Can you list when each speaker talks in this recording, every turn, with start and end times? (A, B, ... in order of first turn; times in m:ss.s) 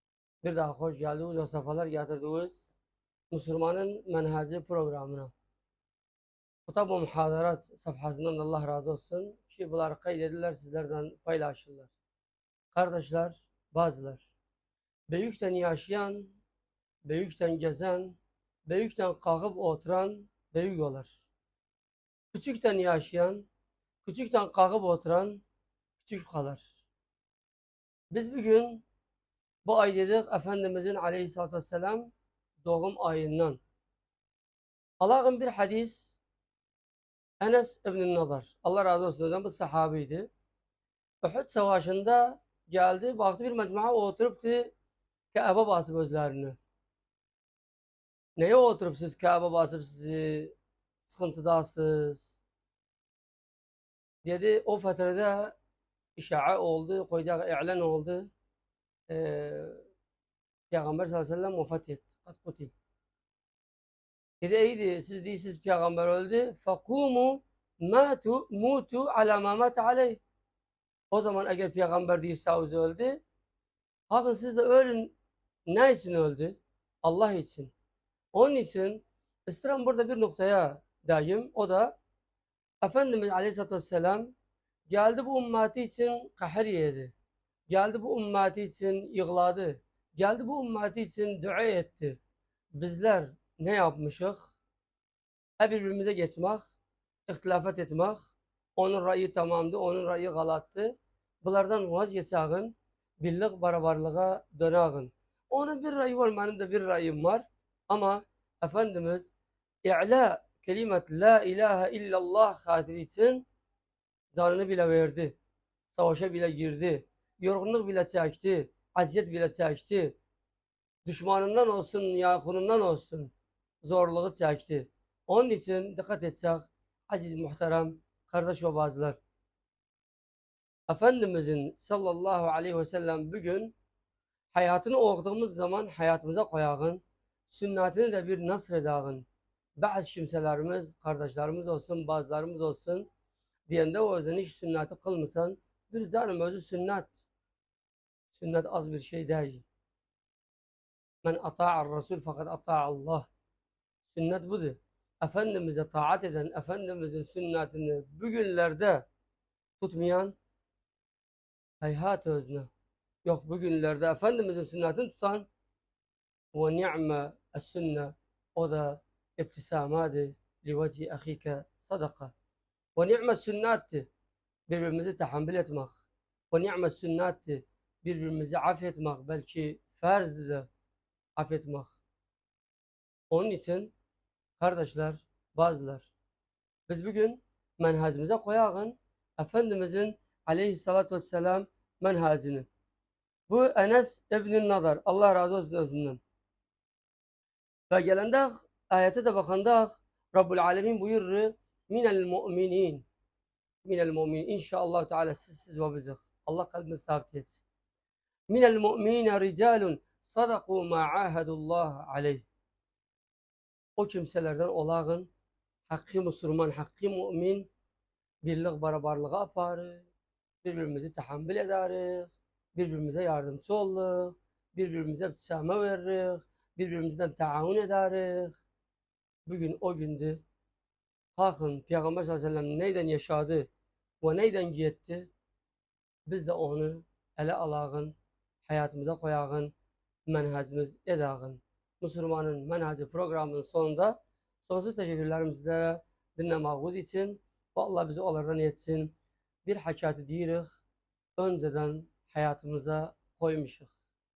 0:00.4-0:02.8 A
0:03.3-0:05.3 A
0:06.7-0:11.9 A
0:12.7-0:14.3 A
0:15.1-0:16.4 A
0:17.0-0:21.2 A
0:22.3-0:23.5 A
0:24.0-0:25.4 A
0:26.0-0:26.8 A
0:28.1-0:28.9 A
0:29.6-0:32.1 A
0:32.6-0:33.6 A
0:35.0-0:36.2 A
0:37.4-0:40.3 A
0:41.2-0:44.7 A
0:45.3-0:46.6 A
0:48.4-0:52.4 A
0:54.2-0:55.6 A
0:56.2-0:58.3 A
0:59.1-0:59.8 A
1:00.7-1:02.7 A
1:04.4-1:10.2 A
1:11.1-1:13.2 A
1:14.1-1:15.2 A
1:15.7-1:17.7 A
1:18.3-1:22.0 A
1:22.8-1:24.3 A
1:24.9-1:27.1 A
1:27.7-1:32.2 A
1:32.8-1:34.5 A
1:35.6-1:36.7 A
1:37.3-1:49.3 A
1:49.8-1:53.5 A
1:54.3-1:55.4 A
1:55.9-2:00.2 A
2:01.1-2:09.2 A
2:10.9-2:13.8 A
2:14.5-2:19.3 A
2:19.8-2:23.1 A
2:23.7-2:27.2 A
2:28.3-2:29.7 A
2:31.2-2:33.3 A
2:34.1-2:39.1 A
2:39.8-2:40.4 A
2:41.8-2:42.7 A
2:43.2-2:45.5 A
2:46.5-2:52.3 A
2:53.0-2:54.1 A
2:54.7-3:00.7 A
3:01.4-3:02.0 A
3:03.3-3:03.9 A
3:04.6-3:06.1 A
3:06.9-3:12.7 A
3:13.5-3:16.2 A
3:17.9-3:23.1 A
3:23.8-3:27.7 A
3:28.5-3:32.5 A
3:34.0-3:35.3 A
3:35.9-3:37.7 A
3:38.4-3:40.1 A
3:40.6-3:48.6 A
3:49.5-3:50.4 A
3:51.4-3:53.7 A
3:54.2-3:55.3 A
3:56.3-3:59.7 A
4:00.3-4:10.8 A
4:11.4-4:13.9 A